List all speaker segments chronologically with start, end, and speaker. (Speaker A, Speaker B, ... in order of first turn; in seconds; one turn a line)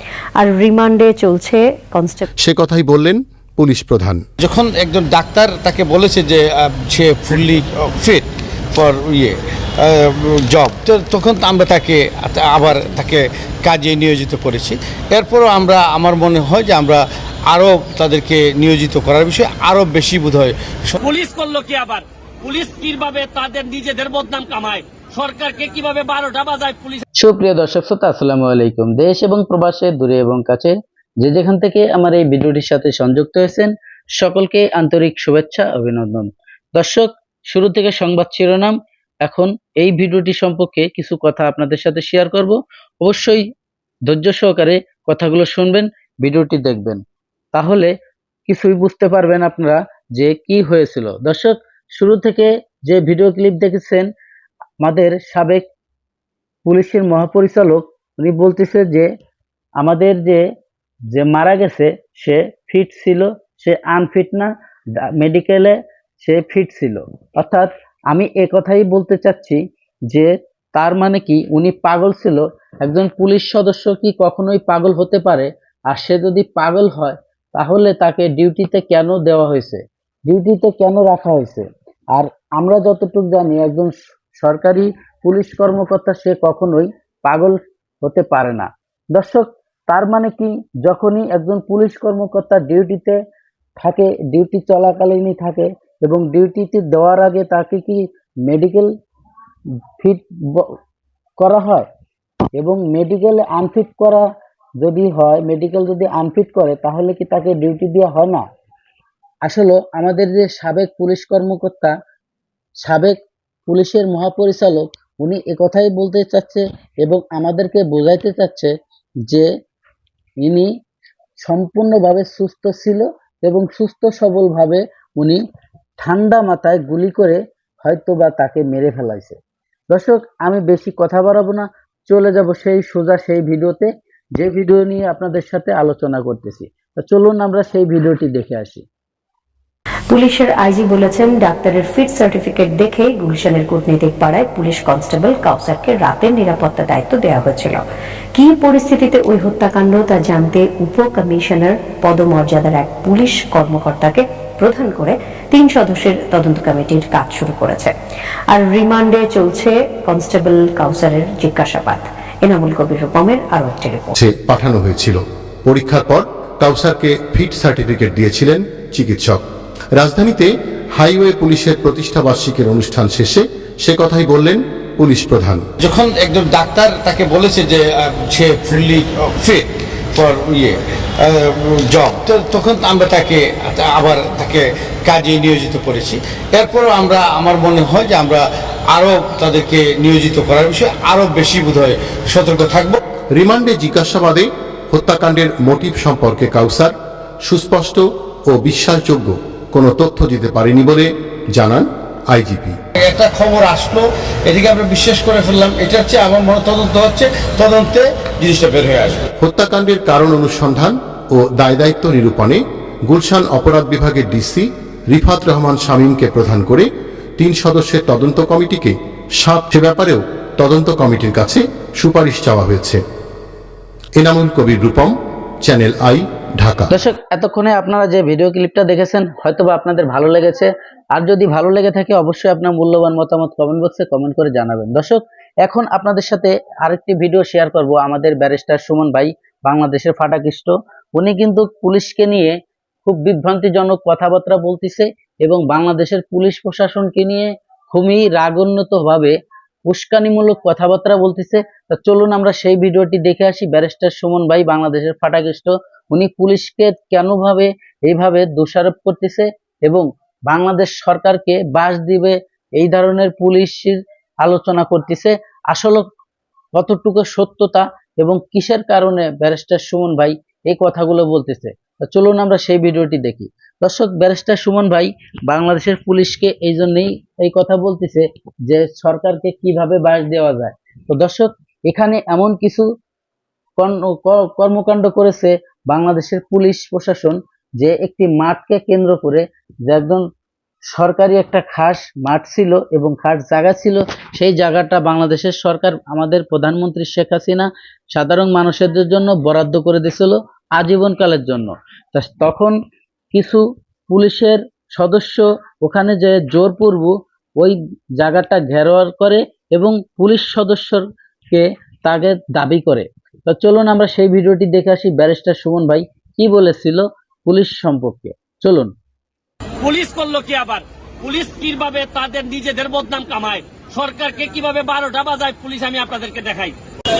Speaker A: 0.4-2.3
Speaker B: 2.4-4.2
Speaker C: 4.4-21.0
Speaker D: 21.0-27.0
Speaker E: 27.2-43.4
Speaker E: 44.1-47.0
Speaker E: 47.5-47.9
Speaker E: 48.5-54.1
Speaker E: 54.8-55.6
Speaker E: 56.7-59.1
Speaker E: 59.8-60.4
Speaker E: 61.1-64.5
Speaker E: 65.2-93.2
Speaker E: 93.8-98.9
Speaker E: 100.0-100.7
Speaker E: 101.4-101.9
Speaker E: 102.6-104.2
Speaker E: 104.8-108.4
Speaker E: 109.5-111.9
Speaker E: 112.8-113.2
Speaker E: 113.7-118.7
Speaker E: 120.4-120.7
Speaker E: 121.4-125.4
Speaker E: 126.0-129.4
Speaker E: 129.9-138.8
Speaker A: 140.1-157.9
Speaker A: 158.5-164.2
Speaker B: 164.2-169.4
Speaker B: 170.0-175.6
Speaker C: 175.8-193.0
Speaker B: 193.3-202.8
Speaker C: 203.0-209.3
Speaker B: 209.4-216.9
Speaker B: 217.4-223.0
Speaker B: 224.2-226.9
Speaker E: 226.9-249.3
Speaker E: 249.9-266.1
Speaker E: 266.8-282.9
Speaker E: 283.8-290.2
Speaker E: 290.9-302.8
Speaker E: 303.3-318.9
Speaker D: 319.8-326.8